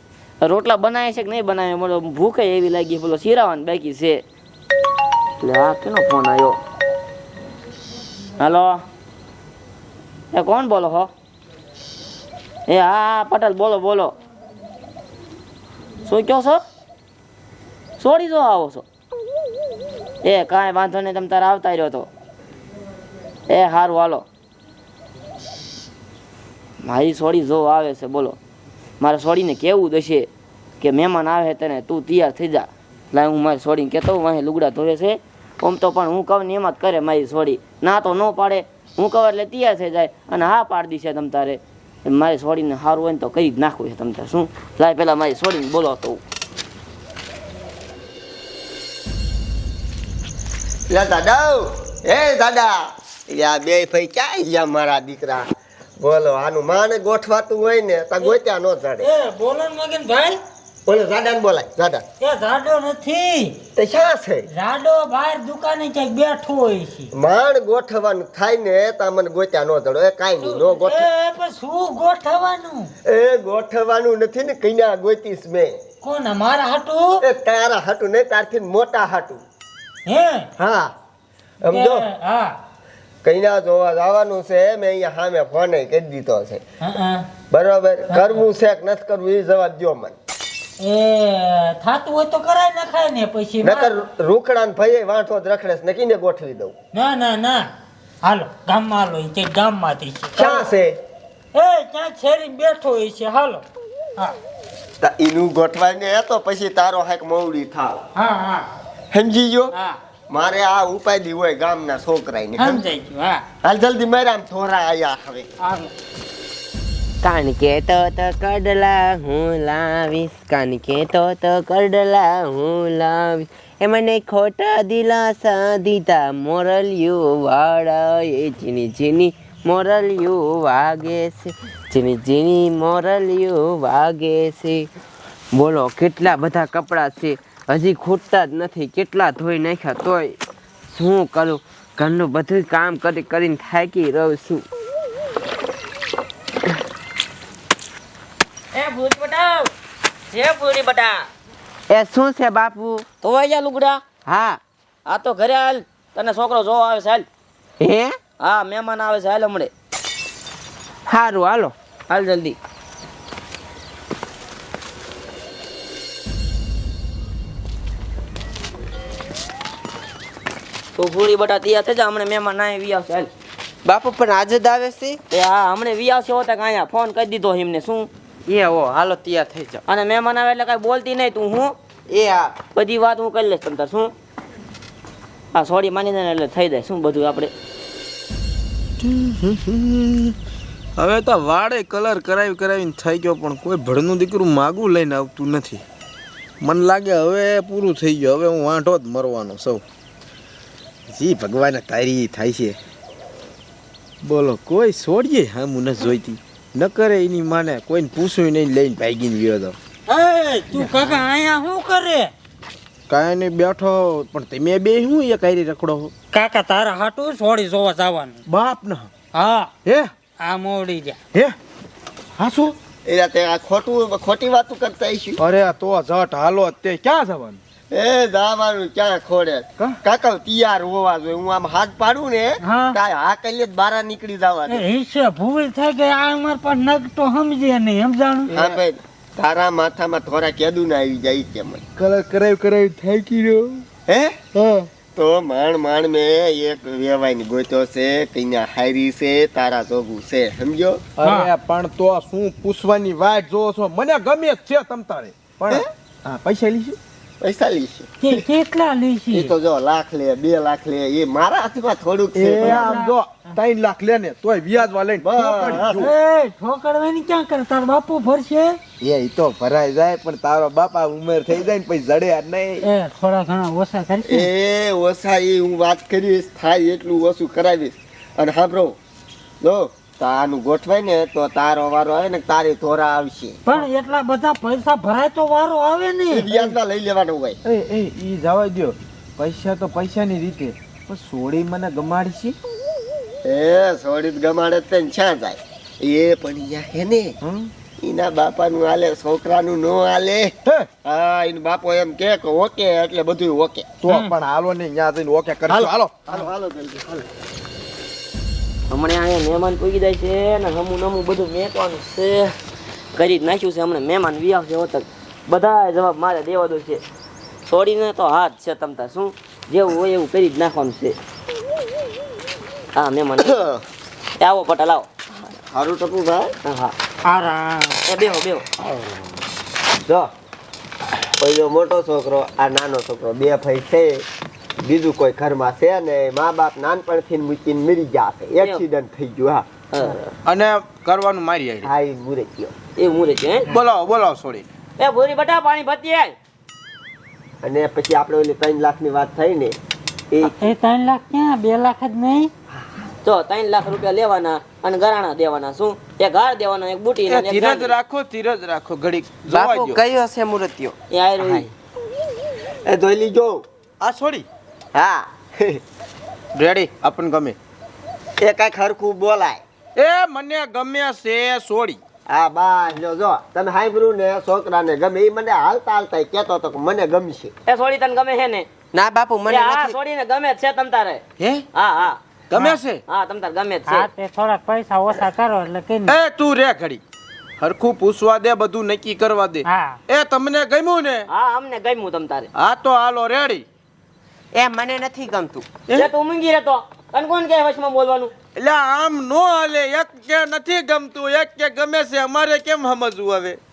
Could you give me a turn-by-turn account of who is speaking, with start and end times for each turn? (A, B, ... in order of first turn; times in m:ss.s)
0:00.4-0:04.2 A
0:05.4-0:06.6 A
0:08.4-0:08.8 A
0:10.3-0:11.1 A
0:12.7-0:14.1 A
0:16.0-0:16.6 A
0:18.0-0:18.8 A
0:20.2-0:22.1 A
0:23.5-0:24.2 A
0:26.8-0:28.4 A
0:29.0-0:30.3 A
0:30.8-0:46.2 A
0:50.9-0:59.1 B
0:59.0-1:00.4 C
1:00.8-1:02.0 B
1:02.2-1:03.6 C
1:03.8-1:04.5 B
1:04.5-1:07.1 C
1:07.1-1:11.1 B
1:10.4-1:12.9 C
1:13.0-1:15.7 B
1:16.0-1:17.2 C
1:17.2-1:19.4 B
1:20.0-1:20.5 C
1:20.6-1:20.9 B
1:21.6-1:22.1 B
1:21.7-1:22.6 C
1:23.2-1:26.6 B
1:26.8-1:27.3 C
1:27.5-1:30.1 B
1:30.8-1:33.9 C
1:33.6-1:36.7 B
1:36.9-1:37.7 C
1:38.2-1:40.6 C
1:40.4-1:41.0 B
1:41.5-1:43.6 C
1:45.0-1:48.0 B
1:48.1-1:48.7 C
1:49.1-1:49.7 B
1:49.7-1:50.0 C
1:50.3-1:52.8 B
1:52.6-1:53.4 C
1:53.6-1:55.5 B
1:55.6-1:55.9 C
1:57.2-2:14.9 D
2:15.5-2:20.4 D
2:20.9-2:24.6 D
2:28.7-2:29.7 A
2:30.3-2:31.3 A
2:31.9-2:33.0 D
2:33.2-2:34.0 A
2:34.3-2:34.6 D
2:35.1-2:37.2 A
2:37.8-2:38.2 D
2:38.4-2:39.7 A
2:41.1-2:41.7 D
2:42.1-2:42.6 A
2:51.0-2:53.3 A
2:53.8-2:55.2 D
2:55.3-2:58.1 A
2:58.5-2:59.8 D
2:59.9-3:01.7 A
3:02.1-3:02.5 D
3:02.7-3:04.1 A
3:05.5-3:07.5 A
3:09.0-3:10.4 E
3:11.0-3:15.8 E
3:16.6-3:19.8 E
3:21.1-3:22.8 E
3:24.2-3:29.8 E
3:30.1-3:32.3 C
3:30.7-3:31.2 E
3:33.1-3:36.1 E
3:36.3-3:38.4 C
3:38.5-3:39.1 E
3:39.3-3:39.7 C
3:39.8-3:40.1 E
3:40.4-3:41.2 C
3:42.4-3:42.8 E
3:43.0-3:45.4 B
3:45.4-3:47.6 E
3:47.9-3:54.8 B
3:52.6-3:53.0 C
3:54.7-3:58.5 C
3:58.5-3:58.8 E
3:58.5-4:01.8 B
4:02.0-4:03.8 E
4:04.1-4:04.4 B
4:04.5-4:04.9 E
4:05.1-4:11.0 B
4:11.2-4:17.0 E
4:11.2-4:11.5 C
4:17.4-4:18.4 B
4:18.2-4:19.5 C
4:19.3-4:23.0 B
4:22.3-4:26.0 E
4:22.6-4:23.1 C
4:25.2-4:26.1 B
4:26.0-4:28.8 C
4:29.0-4:32.9 E
4:32.8-4:34.5 C
4:34.2-4:39.0 B
4:39.6-4:43.6 B
4:43.6-4:46.5 C
4:46.3-4:47.6 B
4:47.6-4:52.6 E
4:53.4-4:57.4 B
4:57.4-4:57.7 E
4:58.0-5:03.8 B
5:04.0-5:06.5 E
5:05.7-5:07.3 B
5:08.9-5:12.5 A
5:13.1-5:17.0 A
5:17.6-5:21.2 A
5:23.0-5:23.6 A
5:23.4-5:23.8 B
5:24.4-5:25.1 A
5:25.7-5:26.5 B
5:26.6-5:26.9 A
5:27.2-5:28.0 C
5:28.0-5:28.6 A
5:30.0-5:30.3 B
5:31.4-5:34.2 B
5:34.8-5:39.6 B
5:39.9-5:40.2 A
5:40.4-5:41.9 E
5:41.8-5:42.7 B
5:43.0-5:43.7 A
5:43.7-5:44.7 E
5:45.0-5:46.3 A
5:47.6-5:49.8 B
5:50.6-5:52.5 C
5:53.2-5:57.9 A
5:57.3-6:00.0 E
5:59.5-6:01.7 D
6:01.1-6:01.7 A
6:02.8-6:03.6 B
6:04.0-6:04.4 E
6:04.9-6:05.8 B
6:06.5-6:07.6 E
6:08.4-6:09.6 B
6:10.0-6:12.0 E
6:12.3-6:17.5 B
6:17.7-6:18.7 A
6:18.9-6:20.0 D
6:19.4-6:21.2 A
6:21.7-6:22.2 A
6:22.5-6:23.0 E
6:23.1-6:24.1 A
6:23.9-6:26.2 C
6:26.1-6:27.0 E
6:27.6-6:31.2 E
6:29.6-6:30.0 C
6:31.3-6:32.5 A
6:32.5-6:33.6 E
6:34.5-6:35.7 D
6:36.0-6:38.3 A
6:38.6-6:43.6 E